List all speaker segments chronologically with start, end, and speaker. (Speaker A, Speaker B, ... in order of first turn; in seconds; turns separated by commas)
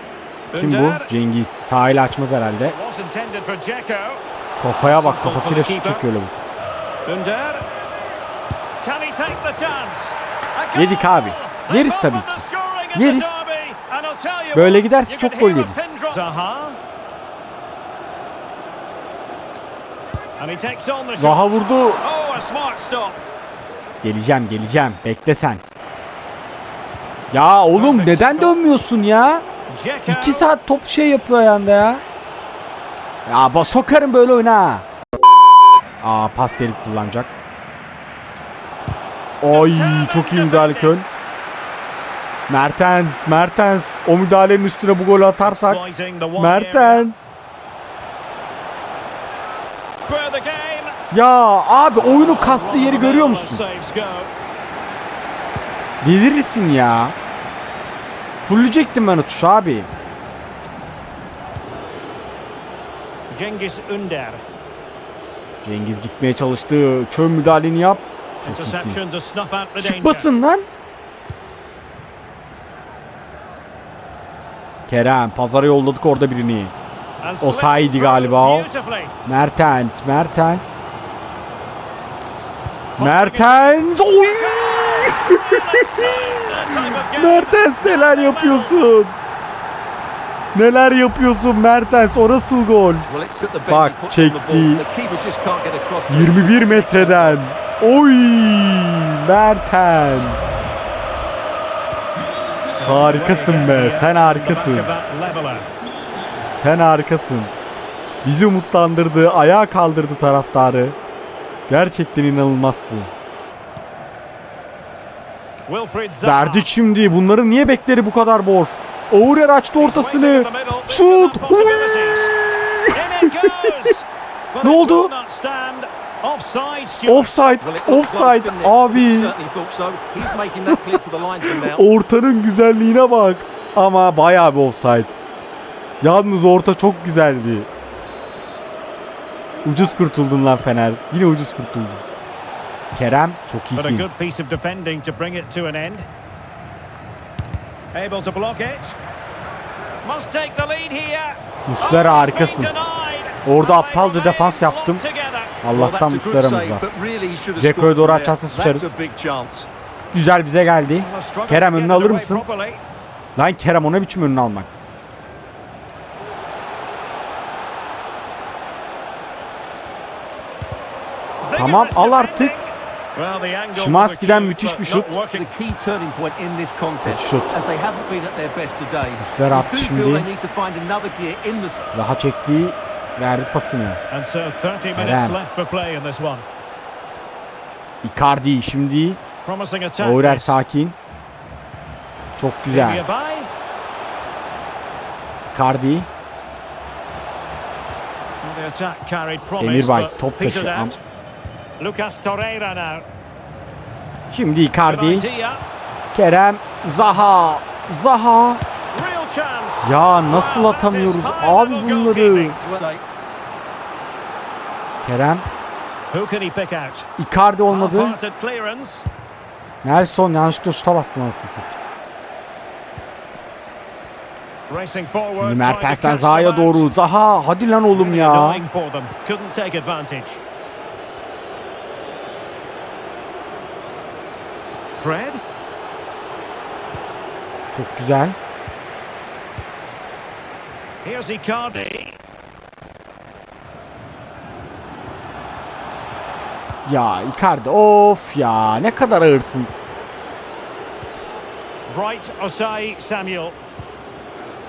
Speaker A: 0.5-1.1, Speaker B: 0.5-2.8, Speaker A: 2.6-4.2, Speaker B: 4.6-6.3, Speaker A: 4.8-6.0, Speaker A: 7.0-7.7, Speaker A: 8.8-16.8, Speaker B: 10.7-13.4, Speaker B: 14.5-15.9, Speaker A: 20.4-23.2, Speaker B: 21.1-22.0, Speaker B: 24.0-25.6, Speaker B: 27.3-29.4, Speaker A: 27.7-28.6, Speaker A: 29.7-30.5, Speaker B: 30.1-32.0, Speaker B: 33.2-34.9, Speaker B: 36.0-37.3, Speaker B: 39.4-41.1, Speaker A: 39.4-41.0, Speaker B: 42.5-45.8, Speaker A: 45.4-47.1, Speaker B: 46.4-47.4, Speaker A: 50.0-51.0, Speaker B: 51.1-53.6, Speaker A: 52.0-54.3, Speaker B: 56.0-57.1, Speaker B: 58.4-59.9, Speaker A: 63.3-64.4, Speaker B: 65.6-69.0, Speaker A: 68.4-70.3, Speaker B: 69.8-70.7, Speaker B: 74.9-76.7, Speaker A: 77.2-79.1, Speaker B: 77.4-78.7, Speaker B: 79.2-80.8, Speaker A: 82.9-88.8, Speaker B: 83.0-89.1, Speaker B: 90.5-93.1, Speaker C: 93.1-97.4, Speaker B: 93.7-94.8, Speaker B: 96.1-100.4, Speaker A: 102.7-105.7, Speaker B: 102.8-104.9, Speaker B: 106.4-107.5, Speaker B: 108.2-111.0, Speaker B: 111.7-113.1, Speaker A: 115.7-116.7, Speaker B: 116.2-123.8, Speaker A: 119.8-122.3, Speaker A: 122.9-127.3, Speaker B: 124.6-125.1, Speaker B: 127.0-129.3, Speaker C: 127.6-131.8, Speaker B: 131.4-135.2, Speaker B: 136.0-137.7, Speaker B: 139.6-142.0, Speaker B: 142.9-144.1, Speaker A: 143.8-146.1, Speaker A: 147.9-148.9, Speaker A: 150.0-155.6, Speaker B: 151.7-152.7, Speaker B: 153.4-155.0, Speaker B: 155.6-156.8, Speaker C: 155.7-159.7, Speaker B: 157.6-158.9, Speaker B: 160.1-162.4, Speaker A: 160.9-162.8, Speaker B: 163.3-164.7, Speaker A: 171.4-175.5, Speaker B: 171.5-172.5, Speaker B: 173.7-175.2, Speaker C: 175.2-181.9, Speaker B: 177.0-177.6, Speaker B: 179.2-180.3, Speaker B: 181.9-184.0, Speaker A: 184.1-186.4, Speaker B: 184.9-185.4, Speaker B: 188.0-189.2, Speaker A: 189.4-190.6, Speaker B: 190.0-191.0, Speaker B: 192.4-193.0, Speaker A: 192.7-193.5, Speaker B: 195.5-196.1, Speaker A: 198.4-201.0, Speaker B: 199.6-201.0, Speaker A: 201.8-203.1, Speaker B: 204.3-205.3, Speaker A: 204.8-205.6, Speaker B: 206.1-208.6, Speaker A: 208.9-212.6, Speaker B: 209.8-212.6, Speaker C: 212.6-213.0, Speaker B: 215.0-215.4, Speaker A: 216.1-217.1, Speaker B: 217.2-218.2, Speaker A: 217.7-219.1, Speaker B: 219.8-221.8, Speaker A: 224.7-226.9, Speaker B: 225.4-228.6, Speaker A: 227.9-230.4, Speaker A: 234.9-235.4, Speaker B: 237.7-238.4, Speaker A: 241.0-242.2, Speaker B: 246.8-249.7, Speaker A: 251.9-253.6